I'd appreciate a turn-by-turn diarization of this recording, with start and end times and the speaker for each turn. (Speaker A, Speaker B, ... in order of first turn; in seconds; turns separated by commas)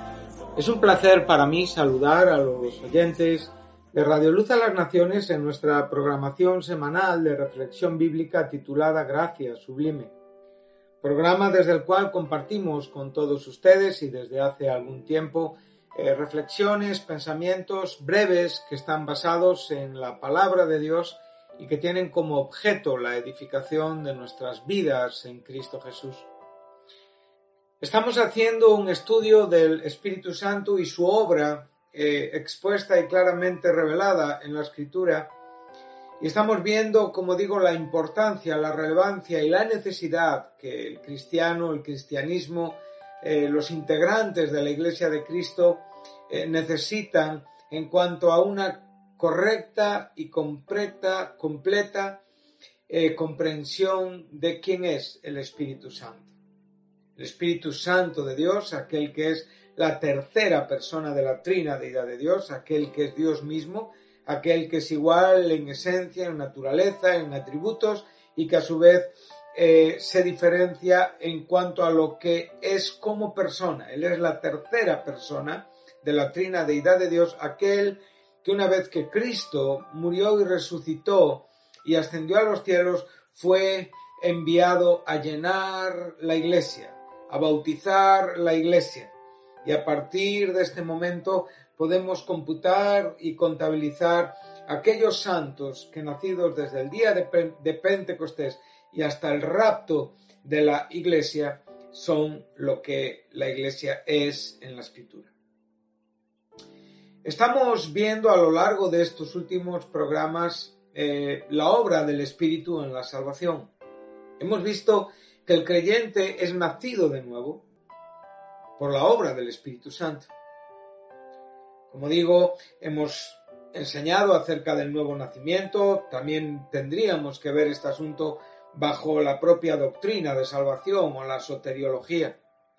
Speaker A: 0.6-10.1, Speaker A: 11.0-26.3, Speaker A: 27.8-35.3, Speaker A: 36.2-52.2, Speaker A: 52.9-56.3, Speaker A: 57.2-89.1, Speaker A: 89.6-105.3, Speaker A: 107.2-113.7, Speaker A: 114.4-117.6, Speaker A: 118.8-120.3, Speaker A: 121.9-132.4